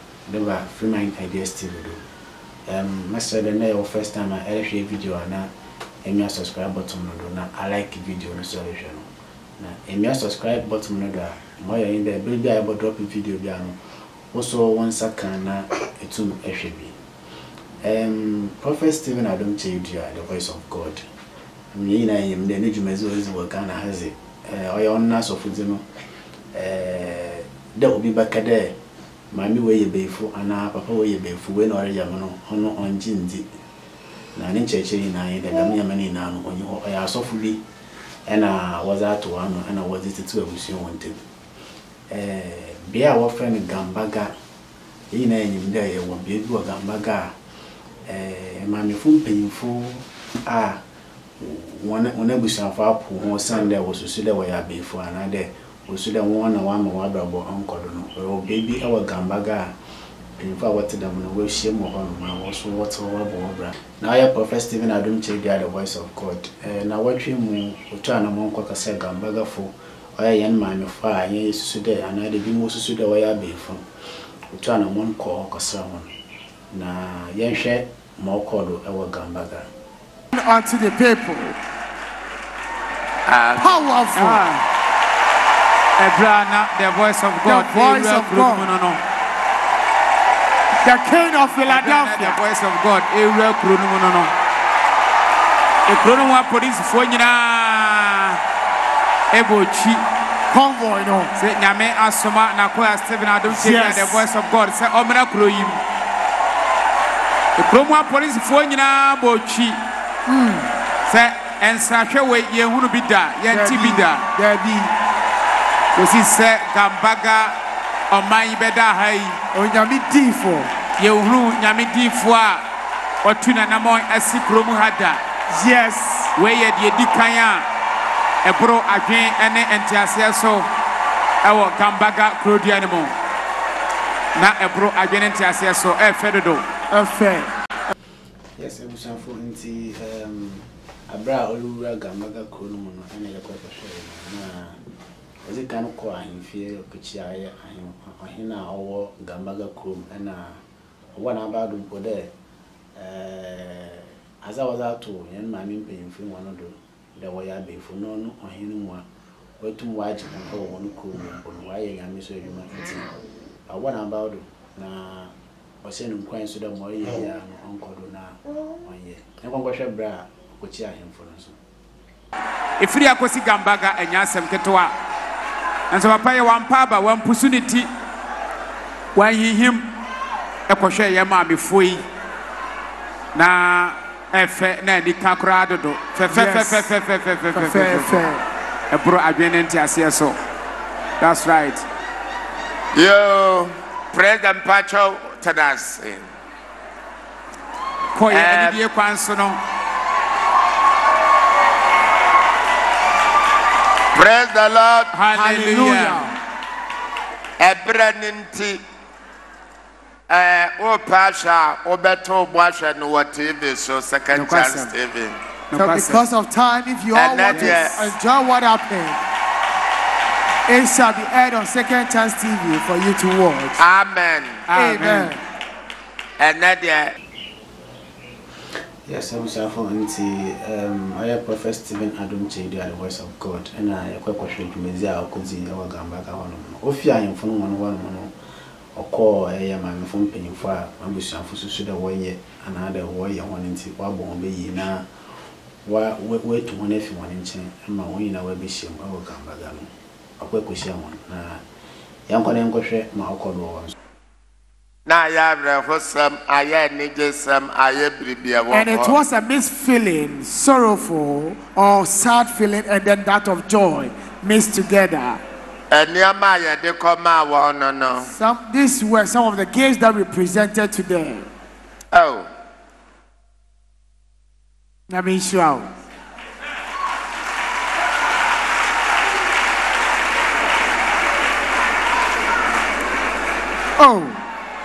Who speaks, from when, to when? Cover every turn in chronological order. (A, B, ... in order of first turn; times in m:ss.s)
0:00.3-0:02.0 A
0:02.7-0:05.5 A
0:06.0-0:09.1 A
0:09.6-0:13.8 A
0:14.3-0:16.9 A
0:17.8-0:21.0 A
0:21.7-0:25.8 A
0:26.5-0:28.8 A
0:29.3-0:33.4 A
0:34.3-0:37.6 A
0:38.3-0:41.2 A
0:42.1-0:44.3 A
0:45.1-0:47.3 A
0:48.1-0:50.8 A
0:51.4-0:59.7 A
1:00.4-1:13.8 A
1:14.5-1:16.1 A
1:16.7-1:19.7 A
1:20.3-1:21.6 B
1:23.3-1:24.6 C
1:23.6-1:24.5 B
1:26.0-1:29.0 C
1:27.4-1:28.7 B
1:30.8-1:32.4 B
1:31.6-1:34.3 C
1:35.9-1:38.4 C
1:39.3-1:40.0 C
1:40.5-1:41.3 B
1:41.4-1:45.8 C
1:43.5-1:44.2 B
1:47.6-1:49.8 C
1:50.3-1:50.7 B
1:51.1-1:54.2 C
1:53.5-1:54.9 B
1:56.0-1:57.5 C
1:58.1-1:59.4 C
1:59.5-2:00.7 B
2:01.0-2:02.6 C
2:03.2-2:05.2 C
2:05.5-2:06.3 B
2:06.4-2:07.6 C
2:08.4-2:10.7 C
2:11.4-2:13.1 C
2:14.3-2:16.6 C
2:16.9-2:17.5 B
2:18.6-2:24.8 A
2:25.4-2:30.6 A
2:31.2-2:32.3 A
2:33.0-2:39.0 A
2:39.6-2:43.1 A
2:43.7-2:51.6 A
2:52.8-2:54.9 C
2:55.9-2:57.9 C
2:59.1-2:59.9 C
3:00.7-3:02.0 C
3:03.3-3:08.3 C
3:06.3-3:06.9 B
3:07.5-3:08.4 B
3:08.9-3:10.4 C
3:11.2-3:11.8 C
3:12.9-3:16.2 D
3:18.1-3:19.6 C
3:18.3-3:18.8 D
3:24.1-3:25.1 D
3:25.1-3:26.3 C
3:25.3-3:26.3 B
3:27.6-3:28.8 D
3:30.3-3:35.4 D
3:34.3-3:34.9 C
3:35.7-3:36.3 C
3:35.7-3:39.2 B
3:37.1-3:38.1 D
3:37.5-3:38.0 C
3:40.7-3:43.8 B
3:43.8-3:44.6 D
3:44.7-3:45.4 C
3:44.7-3:45.4 B
3:46.4-3:47.1 D
3:49.1-3:58.3 A
3:59.0-4:05.0 A
4:05.8-4:11.6 A
4:12.3-4:13.9 A
4:15.0-4:19.2 D
4:18.7-4:25.4 B
4:25.9-4:28.3 D
4:28.3-4:31.5 B
4:32.1-4:32.5 D
4:35.1-4:35.9 B
4:44.0-4:44.4 B